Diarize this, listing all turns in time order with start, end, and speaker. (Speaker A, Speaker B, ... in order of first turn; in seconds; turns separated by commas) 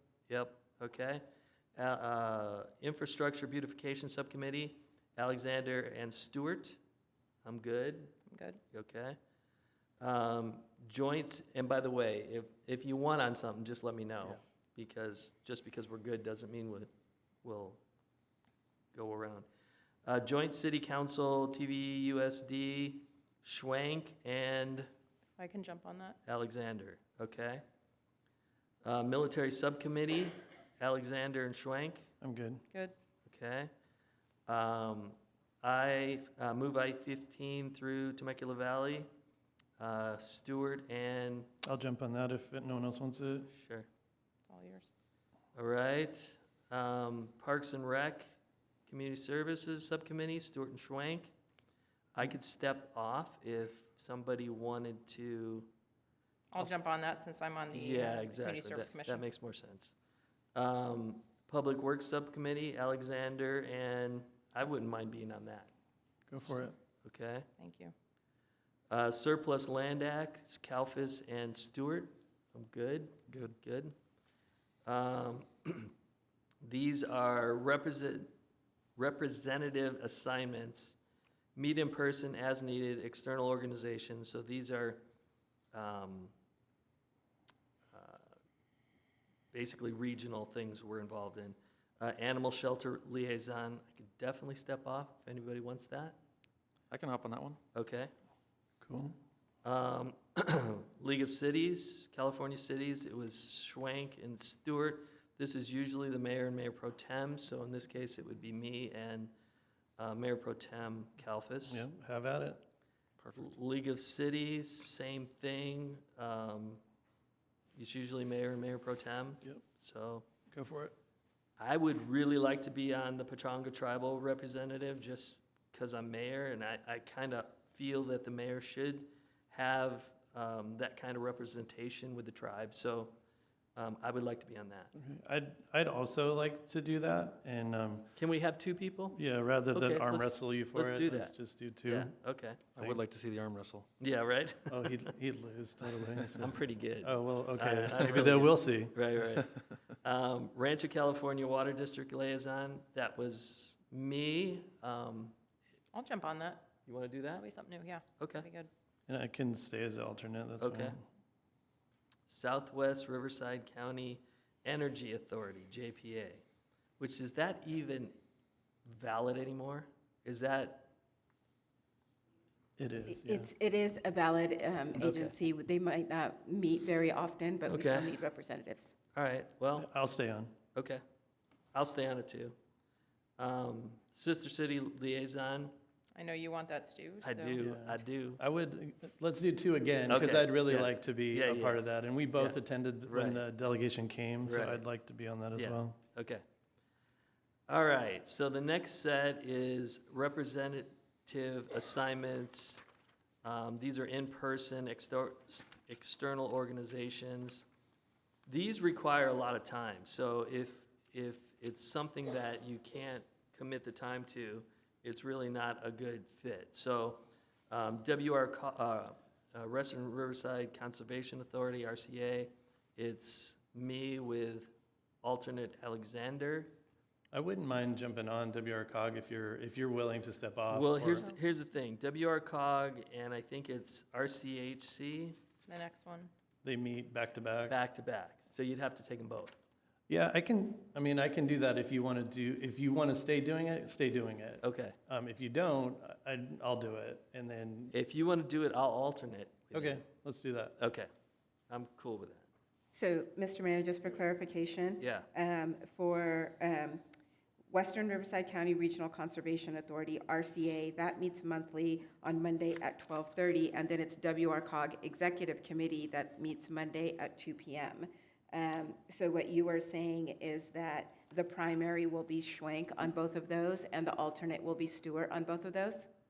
Speaker A: 0.3-1.2, Speaker A: 1.8-6.8, Speaker A: 7.5-8.2, Speaker B: 8.3-8.6, Speaker A: 8.7-9.2, Speaker A: 10.0-16.9, Speaker A: 17.4-17.8, Speaker A: 18.9-19.5, Speaker A: 20.1-24.9, Speaker B: 25.4-26.2, Speaker A: 26.2-27.6, Speaker A: 28.8-32.1, Speaker C: 32.2-32.6, Speaker A: 33.3-33.7, Speaker A: 34.5-39.1, Speaker A: 39.8-41.5, Speaker C: 41.6-43.5, Speaker A: 43.5-43.9, Speaker B: 44.5-44.9, Speaker A: 45.5-48.3, Speaker A: 48.9-51.3, Speaker A: 52.1-55.7, Speaker B: 56.5-59.2, Speaker A: 57.7-59.9, Speaker A: 60.5-65.7, Speaker C: 66.3-66.8, Speaker A: 66.5-67.5, Speaker B: 67.6-67.9, Speaker A: 68.9-74.0, Speaker D: 73.3-73.5, Speaker A: 74.9-75.9, Speaker A: 76.6-78.3, Speaker A: 79.0-81.0, Speaker A: 81.6-85.0, Speaker A: 85.7-86.3, Speaker A: 87.9-88.3, Speaker A: 89.5-96.2, Speaker D: 96.9-97.6, Speaker A: 97.8-98.1, Speaker C: 98.8-99.2, Speaker A: 99.6-109.3, Speaker A: 110.0-111.9, Speaker C: 111.7-112.6, Speaker D: 113.2-113.5, Speaker A: 113.4-116.8, Speaker A: 117.8-120.2, Speaker C: 120.5-120.9, Speaker A: 121.6-133.2, Speaker A: 133.8-134.9, Speaker C: 135.0-138.1, Speaker A: 138.2-139.2, Speaker C: 139.1-142.1, Speaker A: 139.7-141.3, Speaker A: 141.9-142.9, Speaker D: 142.8-143.9, Speaker A: 144.0-145.1, Speaker C: 144.7-148.9, Speaker A: 146.4-155.4, Speaker B: 155.9-156.7, Speaker A: 156.9-157.4, Speaker B: 157.3-158.7, Speaker A: 158.2-158.5, Speaker C: 159.1-161.0, Speaker A: 160.6-161.0, Speaker A: 162.3-166.4, Speaker A: 167.0-168.2, Speaker A: 168.9-170.9, Speaker C: 172.8-173.5, Speaker E: 173.1-178.9, Speaker A: 175.0-175.3, Speaker A: 177.7-178.2, Speaker A: 179.2-179.9, Speaker C: 179.7-180.5, Speaker A: 180.8-181.0, Speaker A: 181.7-182.6, Speaker A: 183.4-185.8, Speaker B: 186.2-187.6, Speaker A: 187.2-188.4, Speaker C: 187.6-196.0, Speaker A: 190.1-191.8, Speaker A: 192.4-193.4, Speaker A: 194.4-194.8, Speaker A: 195.6-196.4, Speaker A: 197.7-202.8, Speaker A: 203.4-207.7, Speaker A: 208.5-226.8, Speaker C: 227.3-231.3, Speaker A: 230.7-235.4, Speaker B: 235.7-236.3, Speaker C: 236.6-237.8, Speaker A: 237.7-239.5, Speaker C: 240.1-247.9, Speaker A: 244.6-245.0, Speaker A: 247.9-250.1, Speaker C: 249.7-250.8, Speaker A: 250.8-251.1, Speaker A: 251.7-252.5, Speaker E: 252.9-257.0, Speaker A: 255.0-255.3, Speaker E: 257.7-276.1